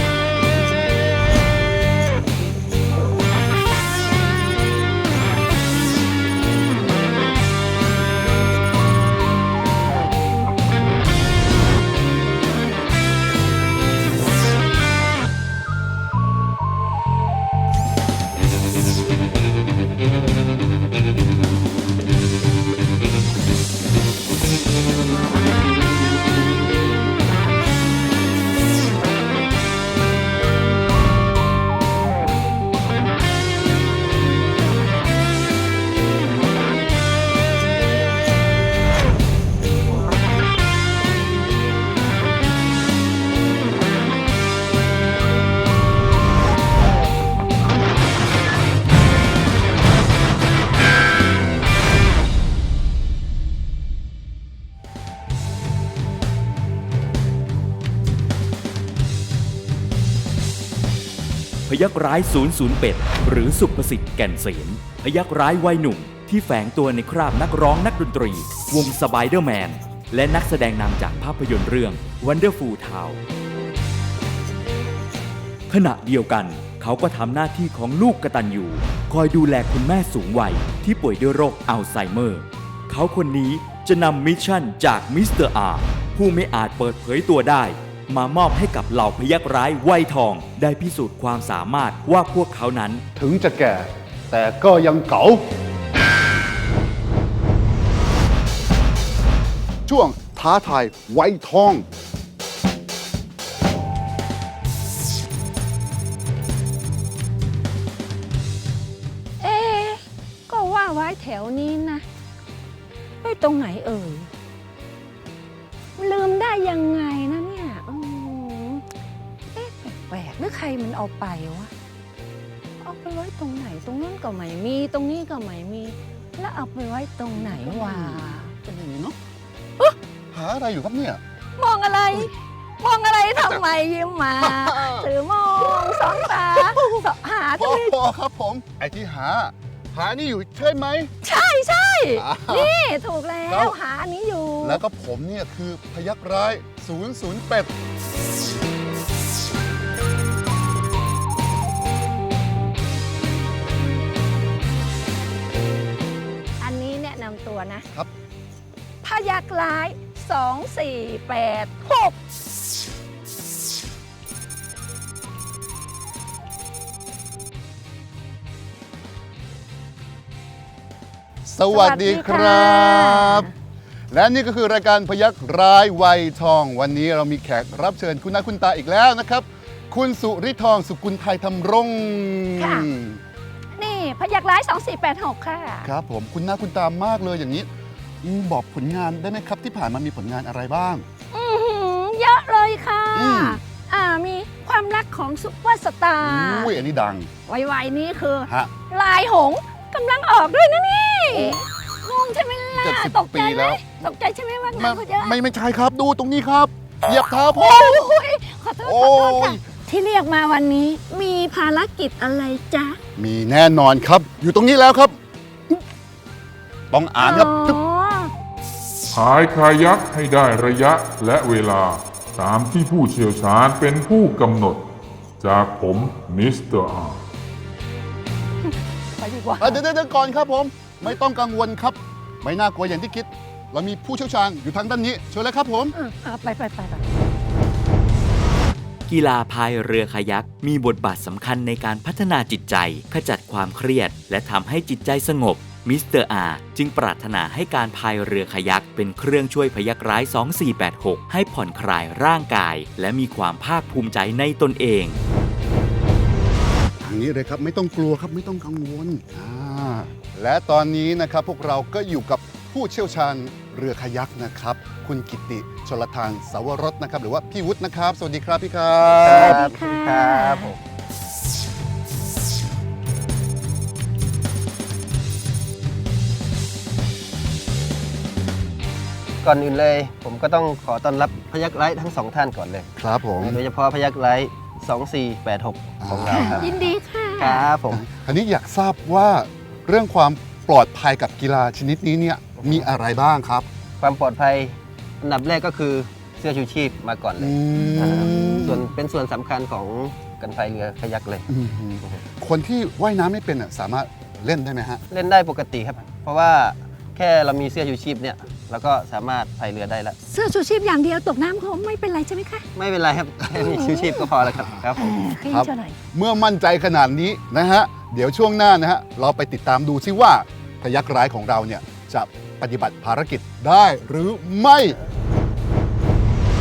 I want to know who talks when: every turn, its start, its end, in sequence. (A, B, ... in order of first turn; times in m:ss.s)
1:01.7-1:13.2 A
1:15.7-1:33.0 A
1:33.2-1:35.5 B
1:39.9-1:41.8 B
1:49.4-1:52.0 C
1:53.2-1:54.3 C
1:56.0-1:58.8 C
1:59.5-2:01.7 C
2:02.8-2:08.5 C
2:07.4-2:09.2 B
2:10.3-2:11.2 B
2:11.6-2:17.9 C
2:14.4-2:17.0 B
2:17.5-2:21.1 B
2:21.2-2:24.8 C
2:22.1-2:22.7 B
2:23.5-2:23.8 B
2:24.6-2:27.7 B
2:36.6-2:37.8 C
2:39.0-2:42.1 C
2:51.4-2:53.5 B
2:51.7-2:53.5 C
2:54.1-3:03.2 B
3:02.6-3:02.9 C
3:03.8-3:05.9 C
3:05.8-3:07.7 B
3:08.2-3:11.0 B
3:11.3-3:16.7 C
3:13.1-3:13.6 B
3:16.2-3:17.3 B
3:17.5-3:25.4 C
3:18.4-3:18.7 B
3:22.7-3:23.9 B
3:24.7-3:28.2 B
3:27.4-3:33.0 C
3:28.8-3:29.6 B
3:33.2-3:35.2 B
3:36.9-3:37.8 B
3:37.2-3:38.3 C
3:39.1-3:44.8 D
3:45.4-3:47.2 D
3:49.2-3:49.8 C
3:49.6-3:55.9 B
3:55.9-3:57.0 C
3:59.1-4:15.2 A
4:17.0-4:29.6 B
4:29.2-4:30.8 E
4:29.3-4:30.7 C
4:39.4-4:46.8 E
4:43.0-4:43.6 B
4:46.0-4:46.8 B
4:46.3-4:47.7 C
4:47.4-4:48.0 E
4:47.9-4:53.7 B
4:52.6-4:52.9 E
4:54.0-5:01.5 E
4:57.4-4:58.8 B
4:57.8-4:58.7 C
5:01.5-5:05.0 B
5:05.1-5:10.2 E
5:10.2-5:12.6 C
5:12.8-5:15.2 E
5:13.5-5:14.3 C
5:15.0-5:15.9 C
5:15.5-5:25.0 B